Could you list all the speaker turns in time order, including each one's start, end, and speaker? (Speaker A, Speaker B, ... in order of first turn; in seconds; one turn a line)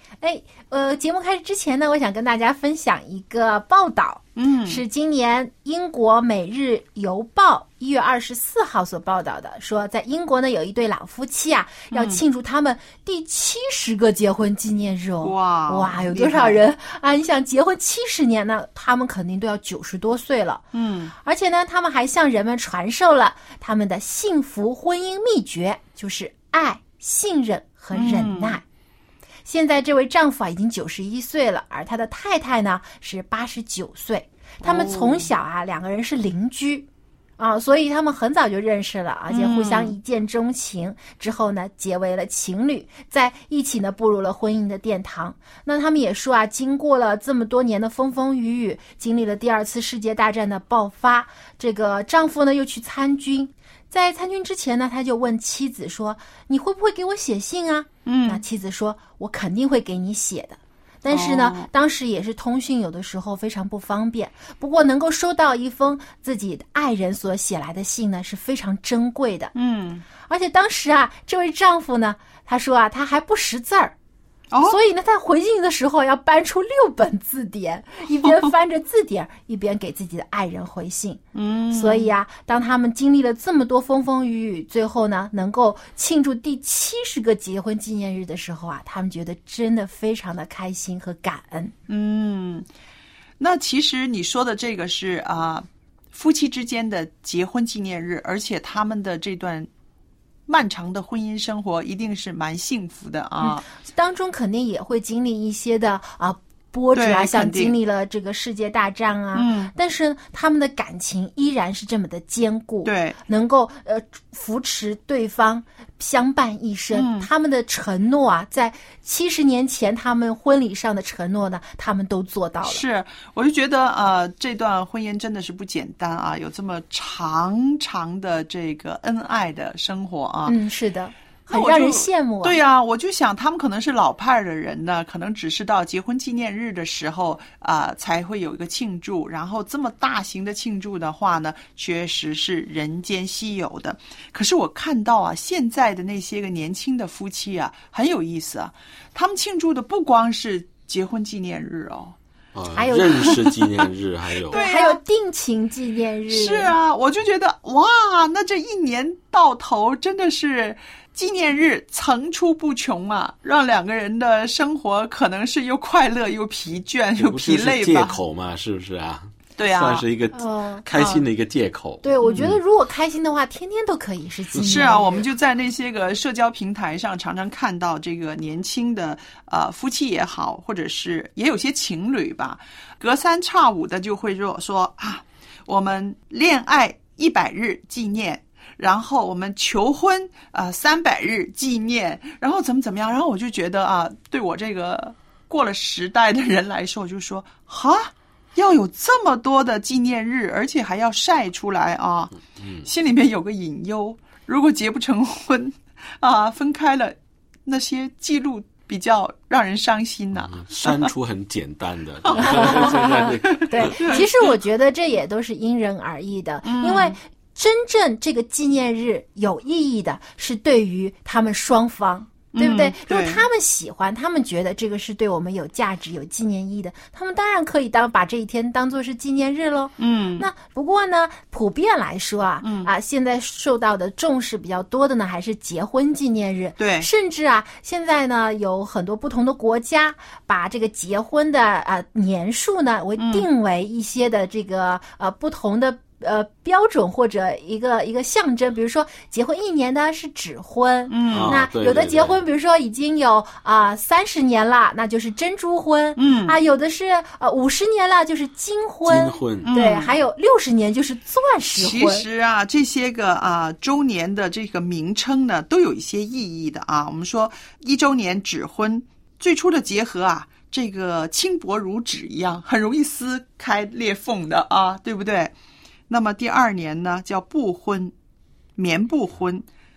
Speaker A: 0.2-20.6
Speaker B: 4.3-4.8
Speaker B: 11.9-12.2
Speaker B: 15.2-16.6
Speaker B: 20.7-21.1
Speaker A: 21.2-28.6
Speaker B: 27.9-28.6
Speaker A: 29.4-36.9
Speaker B: 34.6-35.3
Speaker A: 37.4-69.5
Speaker B: 39.3-39.9
Speaker B: 58.0-58.4
Speaker B: 61.1-61.7
Speaker B: 69.5-70.0
Speaker A: 70.2-73.9
Speaker B: 74.5-74.8
Speaker A: 74.6-91.7
Speaker B: 81.3-82.1
Speaker B: 91.9-92.7
Speaker B: 93.4-99.7
Speaker B: 100.5-103.6
Speaker A: 103.4-122.8
Speaker B: 106.9-107.7
Speaker B: 109.3-109.7
Speaker B: 112.8-113.2
Speaker B: 116.9-117.3
Speaker B: 122.6-130.6
Speaker A: 130.5-132.6
Speaker B: 131.5-152.2
Speaker C: 152.5-154.6
Speaker A: 152.8-153.3
Speaker B: 153.2-153.7
Speaker B: 154.5-155.0
Speaker A: 154.5-156.7
Speaker B: 156.3-168.2
Speaker C: 167.2-172.6
Speaker B: 169.6-170.0
Speaker A: 170.3-170.8
Speaker B: 170.9-171.2
Speaker A: 172.0-175.2
Speaker C: 174.6-174.9
Speaker B: 174.6-211.1
Speaker C: 202.5-202.9
Speaker C: 210.3-214.2
Speaker B: 212.2-214.3
Speaker A: 212.4-262.2
Speaker B: 216.6-217.2
Speaker B: 222.5-223.4
Speaker B: 230.0-230.5
Speaker B: 232.6-232.9
Speaker B: 236.8-237.1
Speaker B: 243.2-243.5
Speaker B: 251.1-251.6
Speaker C: 251.3-252.4
Speaker B: 256.2-256.6
Speaker C: 259.1-259.7
Speaker B: 259.6-260.1
Speaker B: 261.7-275.5
Speaker B: 276.1-278.1
Speaker B: 278.8-279.6